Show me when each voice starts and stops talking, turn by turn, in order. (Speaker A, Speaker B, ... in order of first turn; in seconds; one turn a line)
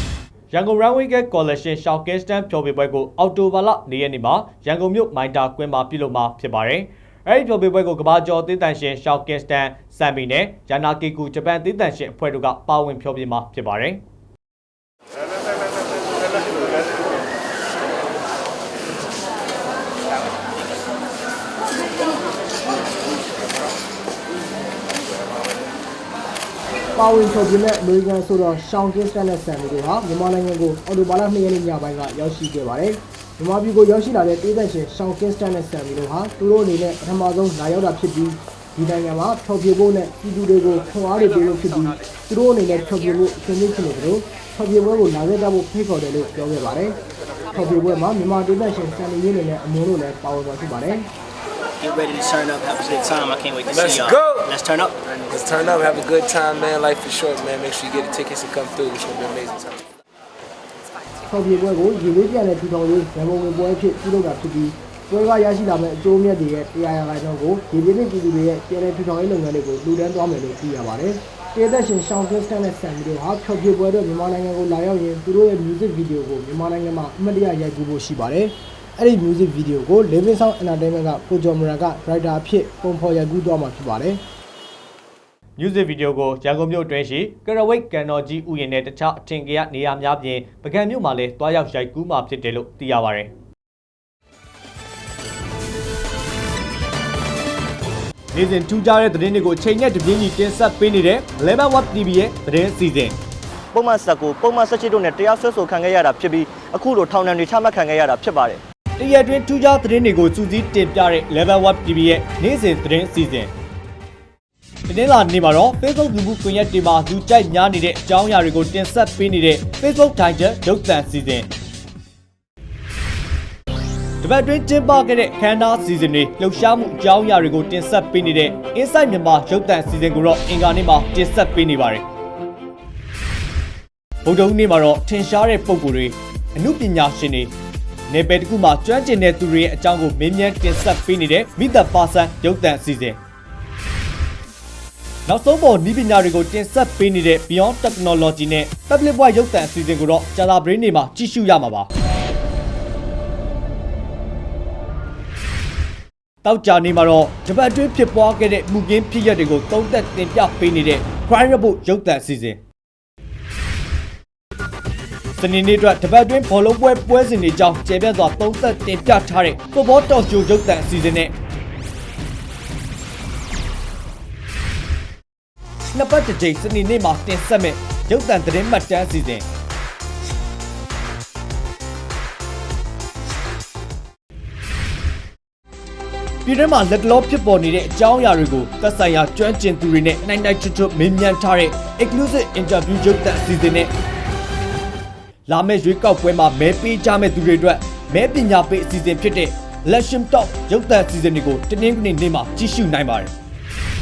Speaker A: 0.5-14.0
Speaker B: 27.0-47.0
Speaker B: 47.5-51.1
Speaker C: 51.8-54.9
Speaker D: 53.7-54.5
Speaker D: 55.1-59.8
Speaker B: 61.3-84.2
Speaker A: 85.6-93.3
Speaker A: 98.3-103.2
Speaker E: 103.7-108.6
Speaker A: 109.0-113.5
Speaker A: 114.9-121.5
Speaker A: 124.2-132.0
Speaker A: 134.2-137.5
Speaker A: 138.1-143.2
Speaker A: 145.3-151.9
Speaker A: 156.4-162.6
Speaker A: 165.4-171.3
Speaker A: 175.9-179.4
Speaker A: 186.4-193.9
Speaker A: 195.5-203.3